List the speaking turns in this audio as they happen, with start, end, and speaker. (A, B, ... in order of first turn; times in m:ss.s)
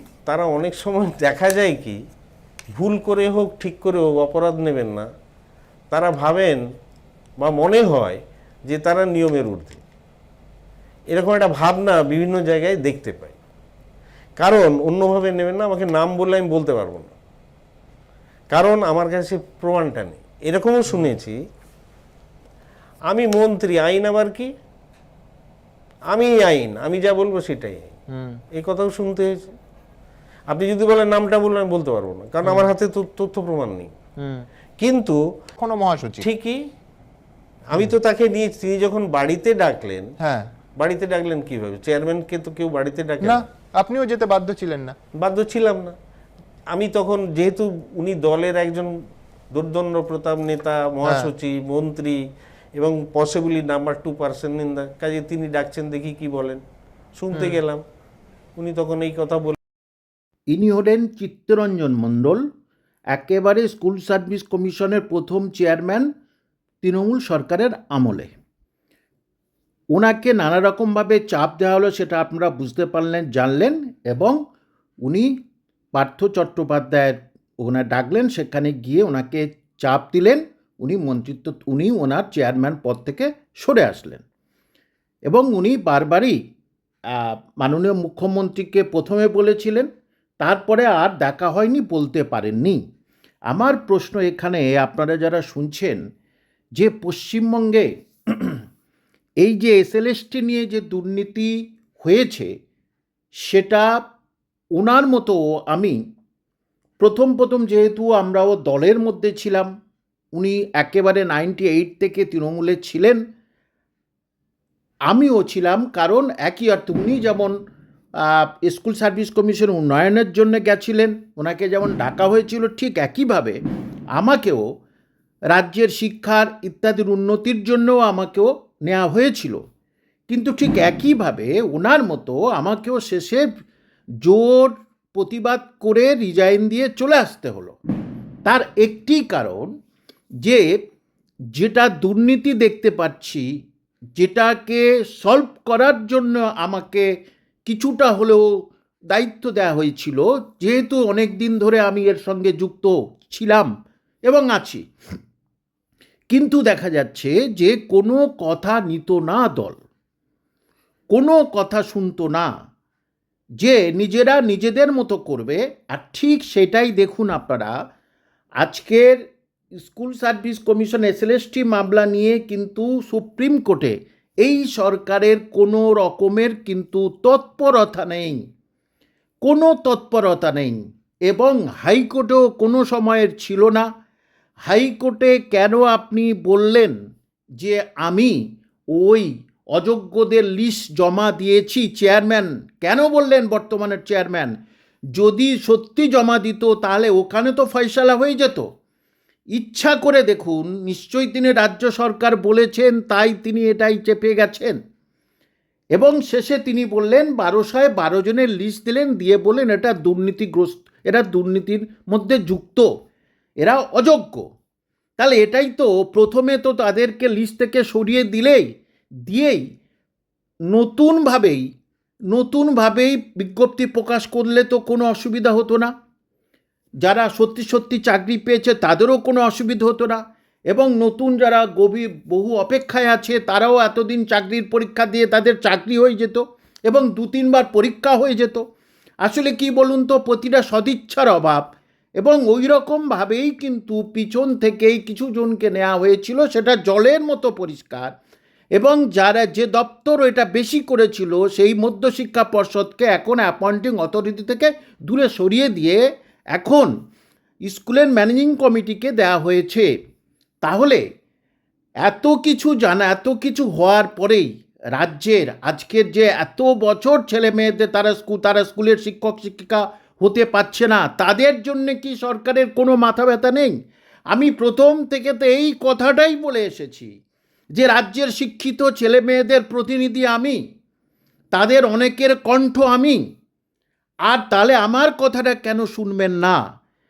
0:00.3-0:02.0 A
0:02.7-0:05.1 A
0:05.9-0:06.6 A
0:07.4-0:09.8 A
0:11.1-0:13.4 A
0:14.4-0:17.2 A
0:18.5-0:21.4 A
0:23.1-0:24.5 A
0:26.1-0:27.9 A
0:28.1-0:28.4 B
0:28.5-0:29.3 A
0:30.5-0:33.9 A
0:34.2-0:34.5 B
0:34.8-0:35.2 A
0:35.6-0:36.3 B
0:36.2-0:36.6 A
0:37.7-0:40.1 A
0:40.2-0:40.5 B
0:40.8-0:43.4 A
0:43.2-0:45.0 B
0:45.2-0:46.0 A
0:46.7-0:48.9 A
0:49.5-0:52.2 A
0:51.0-0:51.3 B
0:52.8-0:56.6 A
0:57.2-0:57.8 A
0:57.3-0:57.6 B
0:58.6-0:59.6 A
1:00.5-1:02.4 C
1:03.1-1:06.1 C
1:06.8-1:08.3 C
1:09.9-1:14.4 C
1:15.0-1:15.3 C
1:16.0-1:24.2 C
1:25.3-1:26.4 C
1:27.1-1:29.9 C
1:30.4-1:32.8 C
1:33.5-1:36.0 C
1:36.8-1:38.6 C
1:39.4-1:42.5 C
1:43.4-1:44.0 C
1:44.8-1:46.0 C
1:47.0-1:49.7 C
1:50.4-1:53.2 C
1:55.1-1:57.5 C
1:58.2-2:03.6 C
2:04.2-2:04.6 C
2:05.5-2:09.6 C
2:10.3-2:13.4 C
2:14.2-2:17.8 C
2:18.5-2:19.7 C
2:20.4-2:20.8 C
2:21.6-2:23.5 C
2:24.2-2:27.1 C
2:27.7-2:28.4 C
2:29.1-2:33.7 C
2:34.3-2:34.8 C
2:36.3-2:39.8 C
2:41.1-2:42.5 C
2:43.6-2:47.7 C
2:48.6-2:49.2 C
2:49.8-2:58.4 C
2:59.4-3:03.9 C
3:04.7-3:06.9 C
3:07.6-3:08.4 C
3:08.9-3:14.5 C
3:15.2-3:18.6 C
3:19.5-3:24.8 C
3:26.0-3:32.9 C
3:33.6-3:34.4 C
3:35.2-3:38.6 C
3:39.3-3:39.6 C
3:40.7-3:41.6 C
3:42.3-3:45.9 C
3:47.0-3:58.6 C
3:59.2-4:01.7 C
4:02.2-4:08.1 C
4:08.8-4:16.0 C
4:16.5-4:16.9 C
4:17.6-4:19.9 C
4:20.6-4:21.0 C
4:22.0-4:33.7 C
4:34.3-4:37.1 C
4:37.7-4:40.6 C
4:41.5-4:43.2 C
4:44.3-4:46.6 C